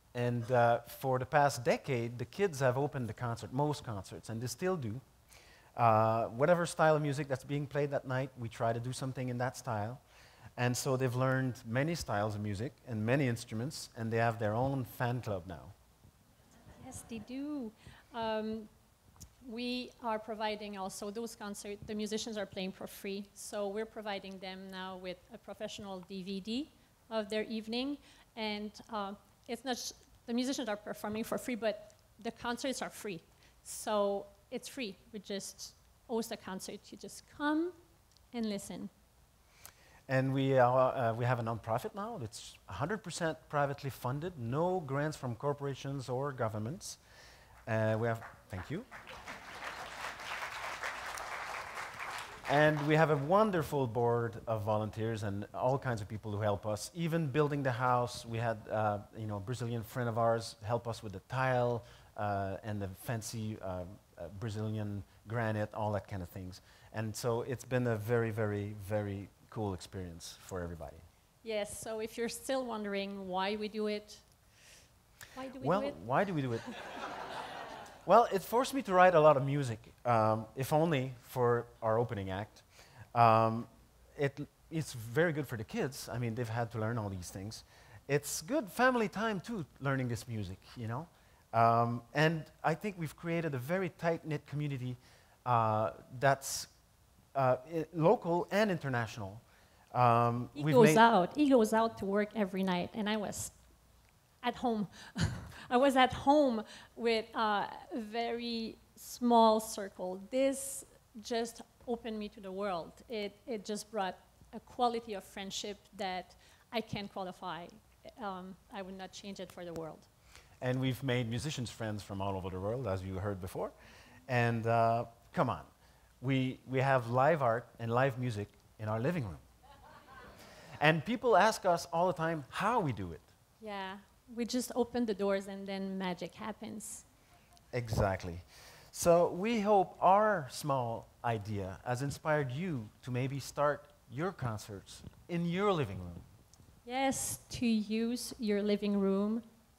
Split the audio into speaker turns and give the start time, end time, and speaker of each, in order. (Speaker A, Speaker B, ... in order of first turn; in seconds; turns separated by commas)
Speaker A: 0.1-5.0, Speaker A: 5.8-10.0, Speaker A: 10.6-15.7, Speaker B: 16.8-18.7, Speaker B: 19.4-37.7, Speaker B: 38.3-38.9, Speaker A: 40.1-47.0, Speaker A: 47.6-48.9, Speaker A: 52.5-71.0, Speaker B: 71.4-74.2, Speaker B: 75.3-76.0, Speaker A: 75.6-76.8, Speaker A: 78.0-96.7, Speaker A: 97.3-101.0, Speaker B: 100.5-103.5, Speaker B: 104.4-120.1, Speaker A: 120.6-123.7, Speaker A: 124.3-125.7, Speaker A: 126.2-129.4, Speaker A: 130.8-133.3, Speaker B: 133.6-137.0, Speaker A: 137.7-146.2, Speaker B: 146.8-149.4